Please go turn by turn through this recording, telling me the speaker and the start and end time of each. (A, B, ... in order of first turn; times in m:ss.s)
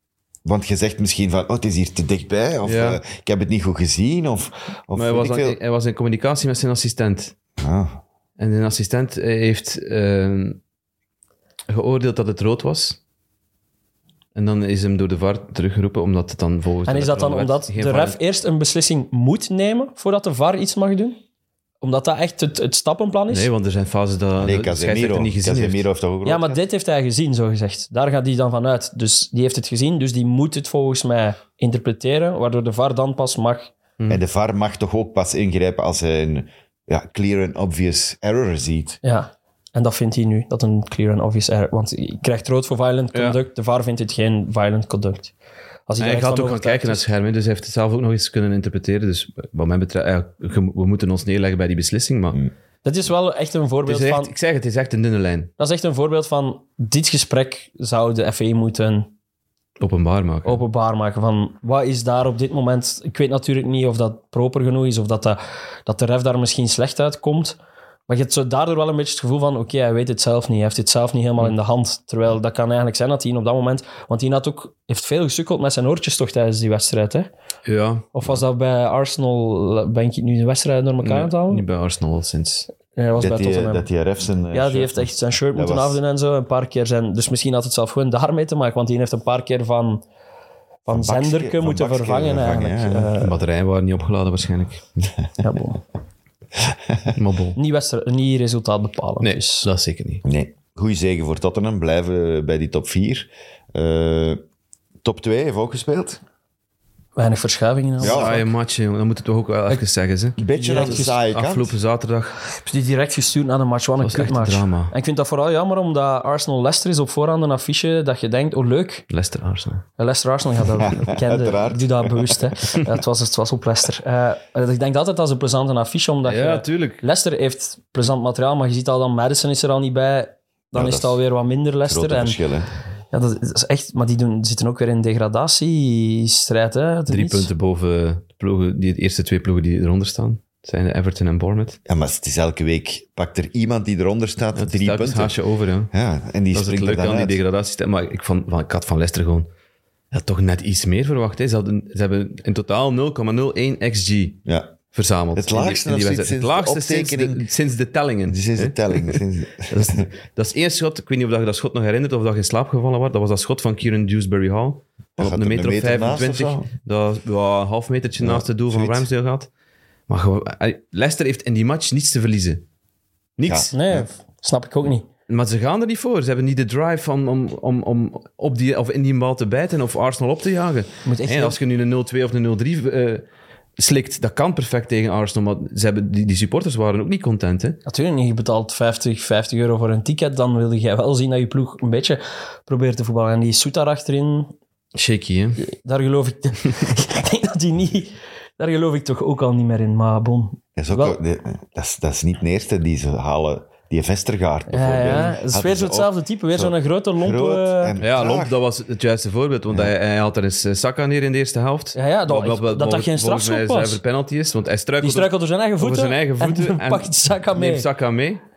0:00.4-0:05.6 A
0:02.6-0:03.0 B
0:04.9-0:07.4 B
0:07.6-0:08.0 A
0:08.4-0:10.6 B
0:11.7-0:13.0 B
0:14.4-0:18.2 B
0:16.9-0:21.2 C
0:21.8-0:23.5 C
0:23.3-0:25.8 B
0:24.4-0:26.6 A
0:26.2-0:33.7 C
0:34.1-0:39.0 A
0:39.0-0:45.3 C
0:45.9-0:47.0 C
0:46.0-0:52.4 B
0:52.8-0:54.3 C
0:53.9-0:55.5 B
0:55.6-0:59.1 C
0:59.8-1:00.6 B
1:00.4-1:07.6 C
1:08.1-1:17.3 C
1:17.7-1:18.4 B
1:18.1-1:21.6 C
1:21.0-1:22.7 B
1:22.9-1:23.9 C
1:23.2-1:26.0 A
1:24.5-1:30.0 C
1:30.9-1:33.4 C
1:30.9-1:33.1 A
1:33.2-1:34.8 B
1:35.4-1:35.8 C
1:36.6-1:37.1 A
1:37.1-1:37.6 B
1:37.6-1:39.7 C
1:39.2-1:40.2 B
1:40.2-1:44.4 A
1:45.0-1:46.2 A
1:47.2-1:48.4 C
1:48.0-1:48.4 A
1:48.0-1:52.4 B
1:50.4-1:51.8 A
1:50.6-1:51.1 C
1:52.6-1:59.0 C
1:54.0-1:54.9 B
1:59.1-1:59.9 B
2:00.0-2:12.4 C
2:00.8-2:02.4 A
2:06.2-2:07.0 B
2:10.8-2:11.2 A
2:11.8-2:12.7 A
2:13.1-2:17.5 C
2:17.1-2:21.8 B
2:21.9-2:25.4 A
2:24.6-2:25.9 B
2:25.9-2:27.4 A
2:26.5-2:29.5 B
2:30.1-2:34.4 B
2:34.5-2:34.8 A
2:34.9-2:49.5 B
2:35.4-2:37.5 A
2:38.3-2:40.1 A
2:45.2-2:46.7 A
2:48.2-2:49.1 A
2:50.1-2:52.6 B
2:53.4-2:53.8 B
2:53.4-2:54.0 A
2:53.7-2:55.1 C
2:55.3-3:03.2 B
3:01.0-3:01.6 C
3:03.8-3:07.8 B
3:07.9-3:14.5 C
3:15.0-3:15.6 B
3:15.6-3:21.2 C
3:20.8-3:28.6 A
3:24.7-3:28.0 C
3:28.0-3:38.4 B
3:32.0-3:34.0 C
3:35.0-3:37.9 C